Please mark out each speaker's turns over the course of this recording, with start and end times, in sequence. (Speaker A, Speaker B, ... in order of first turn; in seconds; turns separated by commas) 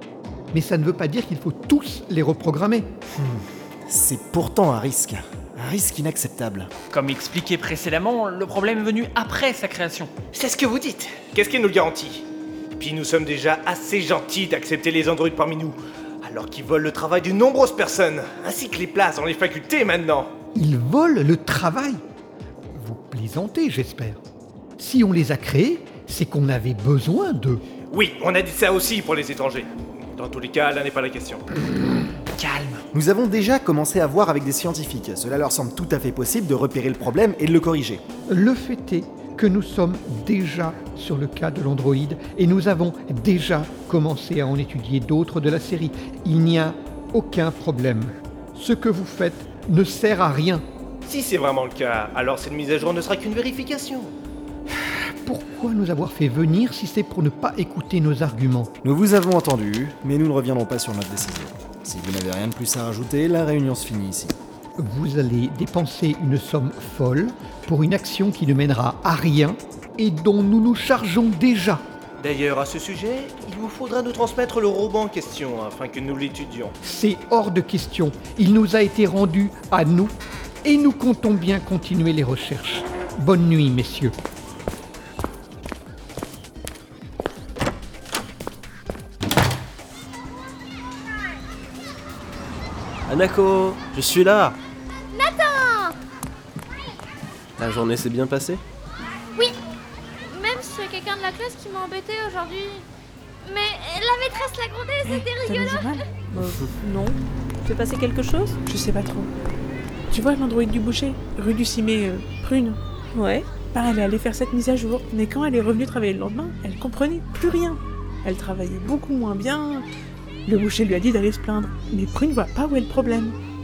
Speaker A: 0.5-2.9, Speaker B: 3.2-6.7, Speaker C: 6.9-10.1, Speaker D: 10.3-12.2, Speaker D: 12.8-20.3, Speaker A: 20.5-22.0, Speaker A: 22.7-24.2, Speaker A: 24.8-27.6, Speaker D: 27.9-31.4, Speaker C: 32.4-32.8, Speaker B: 32.9-38.0, Speaker A: 38.3-50.6, Speaker D: 51.0-54.1, Speaker A: 55.2-58.7, Speaker B: 58.8-64.4, Speaker A: 64.8-71.8, Speaker D: 72.2-76.7, Speaker A: 76.8-80.1, Speaker A: 80.6-84.1, Speaker E: 93.1-94.6, Speaker F: 95.1-95.9, Speaker E: 97.6-98.6, Speaker F: 100.3-102.8, Speaker F: 103.5-105.3, Speaker G: 105.0-106.5, Speaker H: 106.2-108.6, Speaker G: 108.7-109.3, Speaker G: 110.1-112.8, Speaker H: 113.1-113.5, Speaker G: 113.7-119.8, Speaker G: 120.5-123.3